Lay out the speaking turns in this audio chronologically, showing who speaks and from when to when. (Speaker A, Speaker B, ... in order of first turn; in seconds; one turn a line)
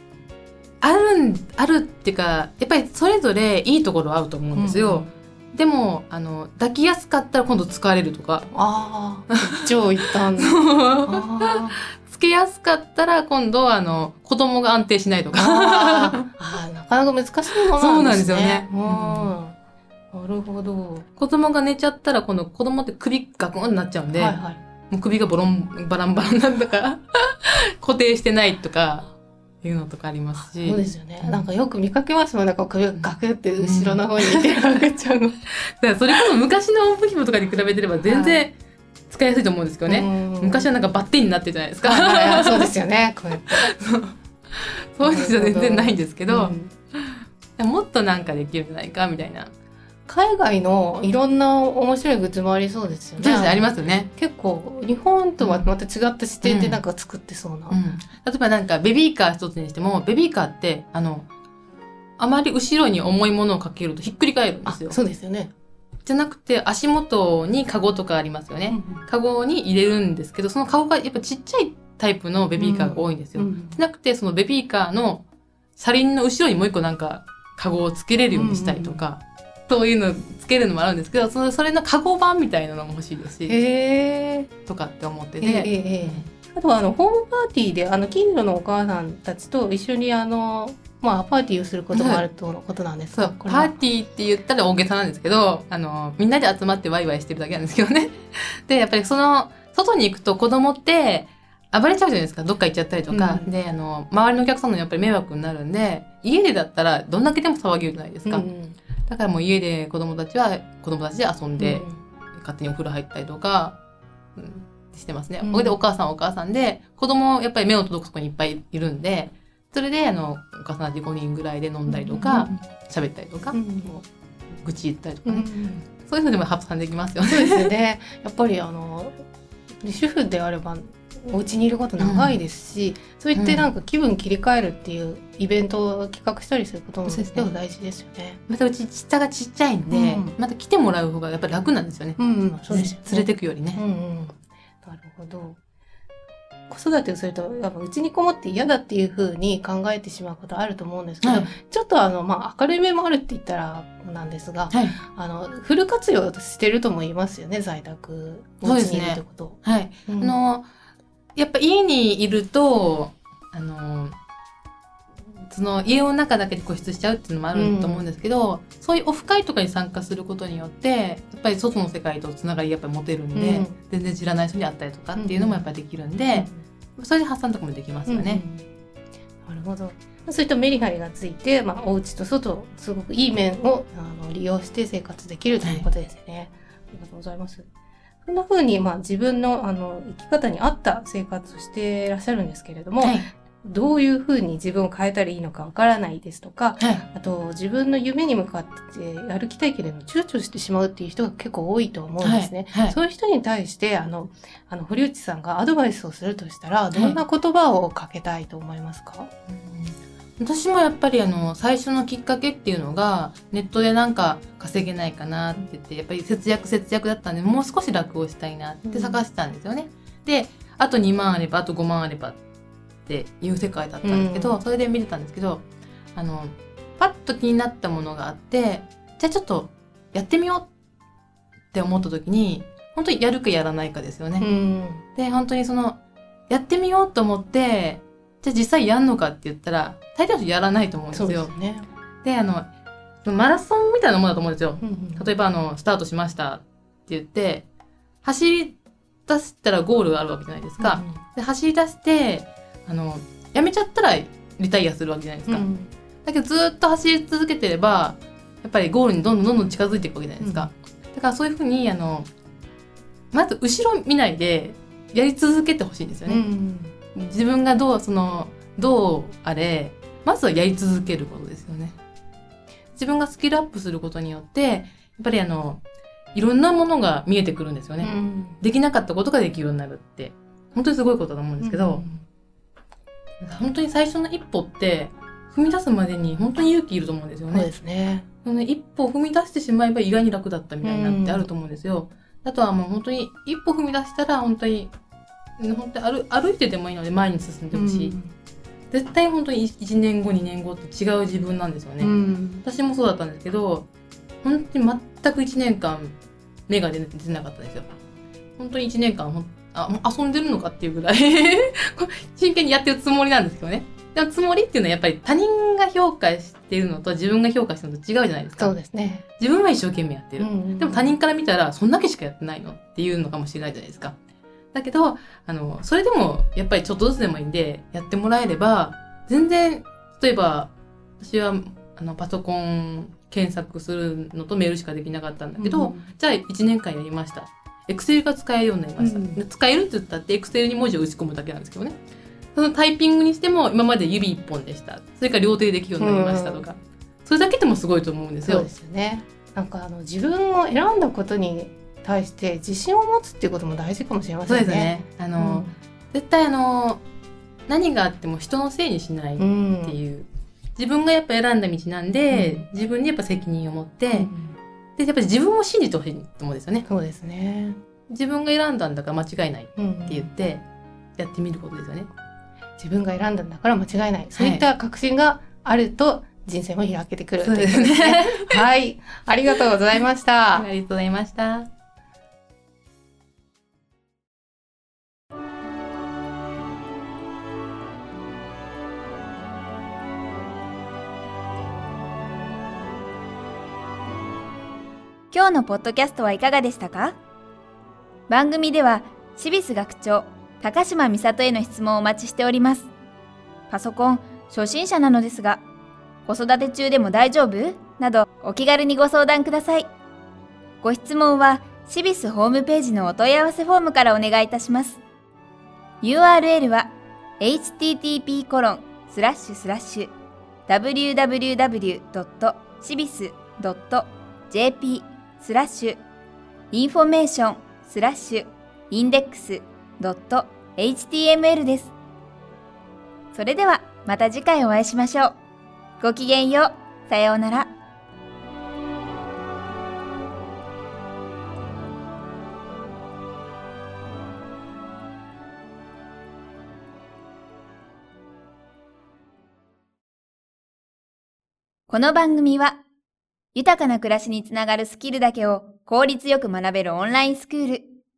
Speaker A: 0.8-8.5
Speaker B: 4.5-5.1
Speaker B: 8.5-11.8
Speaker A: 10.3-16.2
Speaker B: 15.3-19.6
Speaker A: 17.6-19.3
Speaker B: 20.1-21.1
Speaker A: 21.2-31.5
Speaker B: 24.1-24.6
Speaker B: 30.6-35.3
Speaker A: 33.0-38.5
Speaker B: 38.1-38.5
Speaker A: 39.1-42.7
Speaker B: 39.9-40.7
Speaker B: 41.8-43.7
Speaker A: 43.4-49.5
Speaker B: 45.0-46.7
Speaker B: 50.1-57.8
Speaker A: 53.2-54.1
Speaker A: 55.4-55.7
Speaker A: 56.4-56.8
Speaker A: 57.7-61.3
Speaker A: 62.2-65.0
Speaker B: 64.7-65.5
Speaker A: 66.0-75.2
Speaker B: 68.7-69.0
Speaker B: 72.6-73.8
Speaker A: 75.8-83.6
Speaker B: 78.3-79.1
Speaker B: 83.5-84.5
Speaker A: 84.6-86.3
Speaker B: 85.4-93.8
Speaker A: 91.9-92.2
Speaker A: 93.1-108.5
Speaker B: 103.1-103.5
Speaker B: 108.2-108.8
Speaker A: 109.0-113.8
Speaker B: 111.6-112.0
Speaker A: 114.4-123.9
Speaker B: 115.4-115.8
Speaker B: 121.9-122.6
Speaker B: 123.5-124.0
Speaker A: 124.6-127.7
Speaker B: 125.2-125.9
Speaker B: 127.2-129.1
Speaker B: 129.8-138.4
Speaker A: 132.0-132.4
Speaker A: 133.3-133.7
Speaker A: 137.1-137.5
Speaker A: 138.5-143.8
Speaker B: 139.9-140.3
Speaker B: 142.2-145.6
Speaker B: 146.7-160.4
Speaker A: 151.2-151.5
Speaker A: 154.7-155.0
Speaker A: 158.6-160.7
Speaker A: 161.4-164.2
Speaker A: 165.5-178.4
Speaker B: 167.5-168.1
Speaker B: 173.3-173.8
Speaker B: 175.2-175.6
Speaker B: 176.3-176.6
Speaker B: 178.1-178.6
Speaker B: 179.4-187.7
Speaker B: 188.2-209.3
Speaker A: 202.2-203.0
Speaker A: 206.9-207.2
Speaker A: 209.5-222.4
Speaker B: 218.8-219.2
Speaker A: 223.1-230.7
Speaker B: 224.0-224.6
Speaker A: 231.7-234.5
Speaker B: 234.4-235.0
Speaker A: 235.1-241.5
Speaker B: 241.1-241.9
Speaker A: 242.2-242.7
Speaker A: 243.2-247.7
Speaker B: 244.8-245.3
Speaker A: 248.2-255.7
Speaker B: 250.8-251.2
Speaker B: 255.5-255.9
Speaker A: 256.2-262.3
Speaker B: 260.4-260.7
Speaker A: 263.3-266.4
Speaker B: 266.3-266.9
Speaker A: 267.1-272.0
Speaker A: 272.9-275.8
Speaker A: 276.3-282.0
Speaker B: 278.0-278.6
Speaker B: 281.6-282.2
Speaker A: 283.4-287.7
Speaker B: 287.5-288.2
Speaker A: 288.4-294.9
Speaker B: 290.8-291.5
Speaker A: 295.6-298.1
Speaker B: 297.7-298.3
Speaker A: 298.9-303.9
Speaker B: 302.0-302.6
Speaker A: 304.4-306.2
Speaker A: 306.7-307.9
Speaker A: 308.6-318.8
Speaker B: 318.6-319.2
Speaker A: 319.4-324.2
Speaker B: 320.4-321.2
Speaker A: 324.7-342.0
Speaker B: 335.6-336.1
Speaker B: 339.0-339.4
Speaker A: 342.5-348.7
Speaker B: 346.0-346.6
Speaker B: 348.4-355.8
Speaker A: 354.5-357.0
Speaker A: 357.7-364.3
Speaker B: 359.4-360.0
Speaker B: 362.3-362.7
Speaker B: 364.1-364.6
Speaker A: 365.0-366.9
Speaker B: 366.9-367.8
Speaker A: 368.1-370.6
Speaker B: 369.8-370.3
Speaker A: 371.2-372.1
Speaker B: 372.8-380.7
Speaker A: 374.4-374.7
Speaker A: 377.4-378.6
Speaker A: 380.5-381.7
Speaker C: 395.3-397.2
Speaker C: 398.3-402.9
Speaker C: 403.7-405.6
Speaker C: 406.2-409.9
Speaker C: 410.8-415.0
Speaker C: 416.0-420.1
Speaker C: 420.7-426.0
Speaker C: 426.7-431.9
Speaker C: 433.3-435.3
Speaker C: 436.0-437.7
Speaker C: 451.9-452.8
Speaker C: 453.5-457.9